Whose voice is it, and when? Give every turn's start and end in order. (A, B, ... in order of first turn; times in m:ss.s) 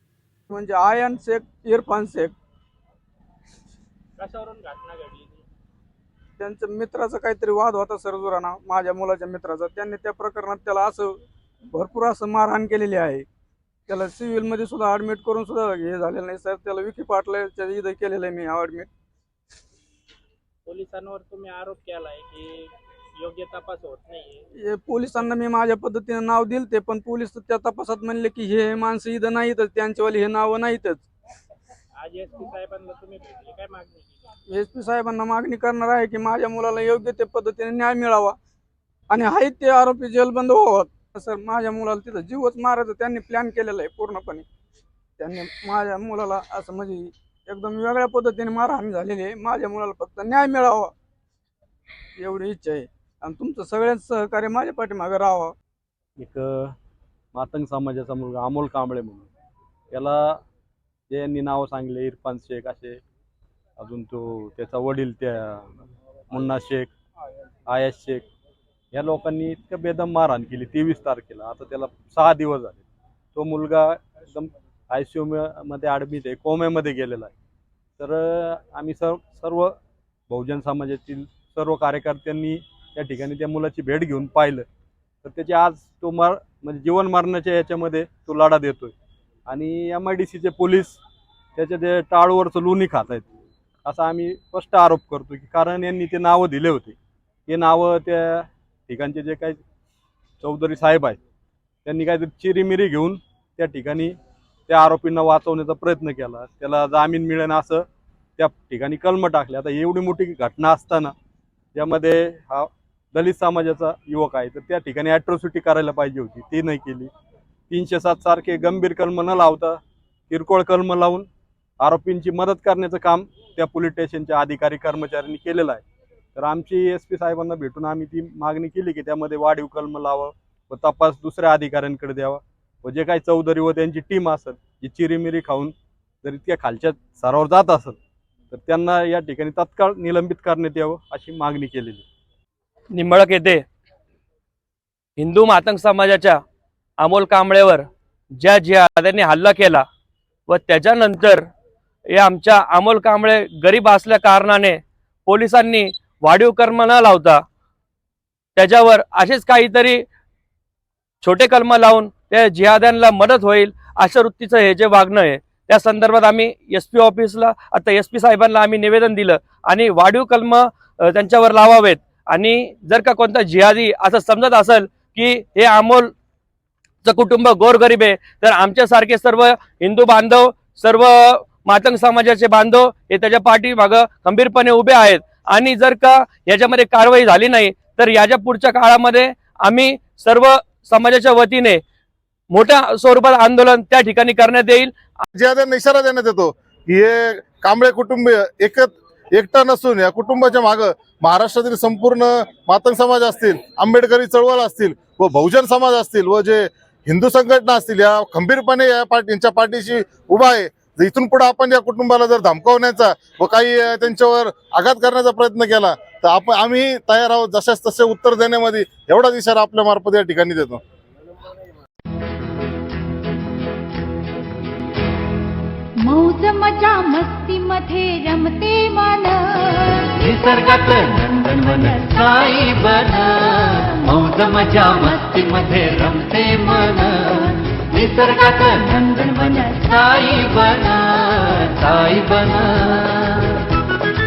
0:00.5-0:02.3 A
0:04.2-0:05.4 B
0:06.4-0:11.1 A
0:11.7-0:13.2 A
0:13.9-0:18.9 A
0:20.6-0:24.4 B
0:24.6-0:31.0 A
0:32.0-0:34.1 B
0:34.5-0:38.4 A
0:39.1-0:44.4 A
0:45.2-0:50.9 A
0:52.2-0:55.5 A
0:56.2-0:56.7 C
0:57.3-0:59.3 C
0:59.9-1:00.4 C
1:01.1-1:03.0 C
1:03.8-1:05.7 C
1:06.3-1:06.9 C
1:07.7-1:08.3 C
1:08.9-1:12.8 C
1:13.3-1:17.3 C
1:18.0-1:19.7 C
1:20.3-1:24.6 C
1:25.2-1:28.9 C
1:29.5-1:31.0 C
1:31.5-1:33.3 C
1:33.8-1:37.0 C
1:37.5-1:39.6 C
1:40.4-1:41.2 C
1:41.8-1:44.2 C
1:44.7-1:47.8 C
1:48.4-1:51.1 C
1:51.7-1:57.1 C
1:57.7-2:01.3 C
2:01.8-2:05.8 C
2:06.3-2:18.0 C
2:18.5-2:22.0 C
2:22.9-2:23.6 D
2:25.2-2:26.4 D
2:27.0-2:27.8 D
2:28.4-2:29.8 D
2:30.5-2:31.4 D
2:32.2-2:37.4 D
2:38.6-2:40.0 D
2:41.2-2:56.1 D
2:57.0-3:11.8 D
3:12.5-3:15.0 D
3:15.3-3:40.8 E
3:46.0-3:50.2 F
3:50.2-4:03.6 G